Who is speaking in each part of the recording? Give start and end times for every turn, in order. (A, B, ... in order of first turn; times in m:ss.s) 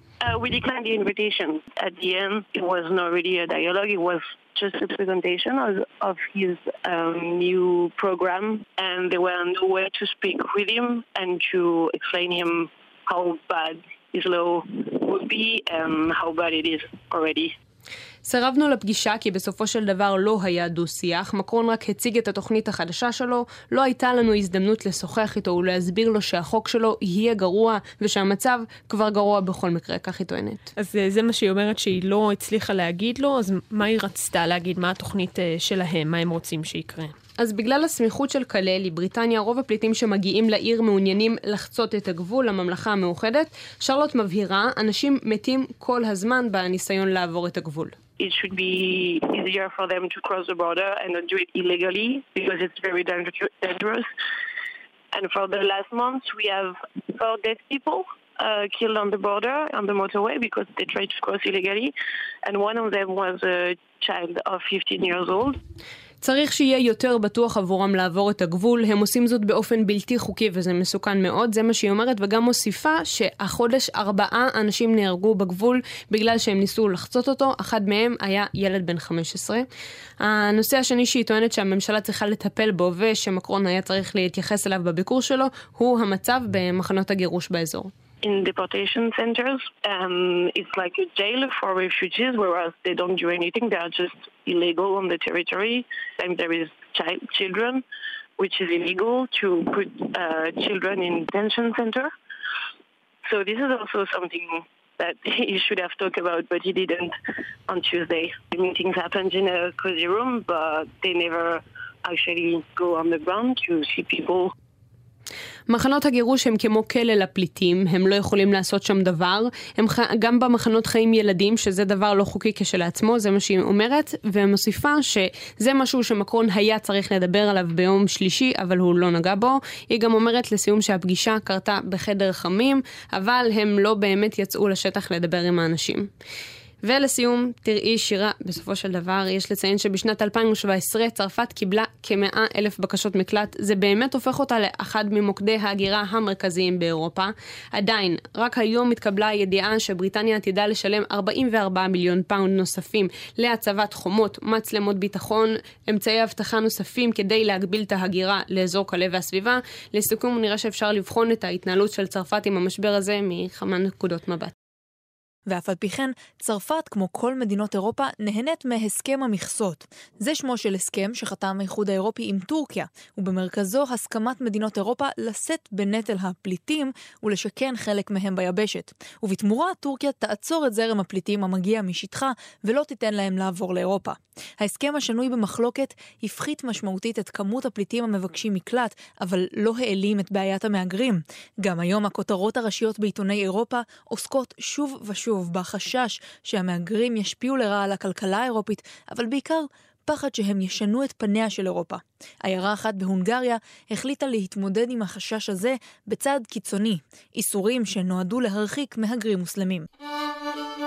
0:00.2-0:17.5 A
0:18.2-0:30.7 B
0:30.8-0:37.1 C
0:37.4-0:48.0 B
0:48.2-0:54.1 A
0:55.1-1:01.9 A
1:02.4-1:05.6 A
1:06.2-1:19.6 B
1:20.2-1:27.9 B
1:28.2-1:37.8 A
1:38.4-1:42.1 A
1:43.3-1:47.1 A
1:47.7-1:54.5 A
1:55.7-2:16.1 B
2:16.8-2:44.5 B
2:45.5-3:29.8 D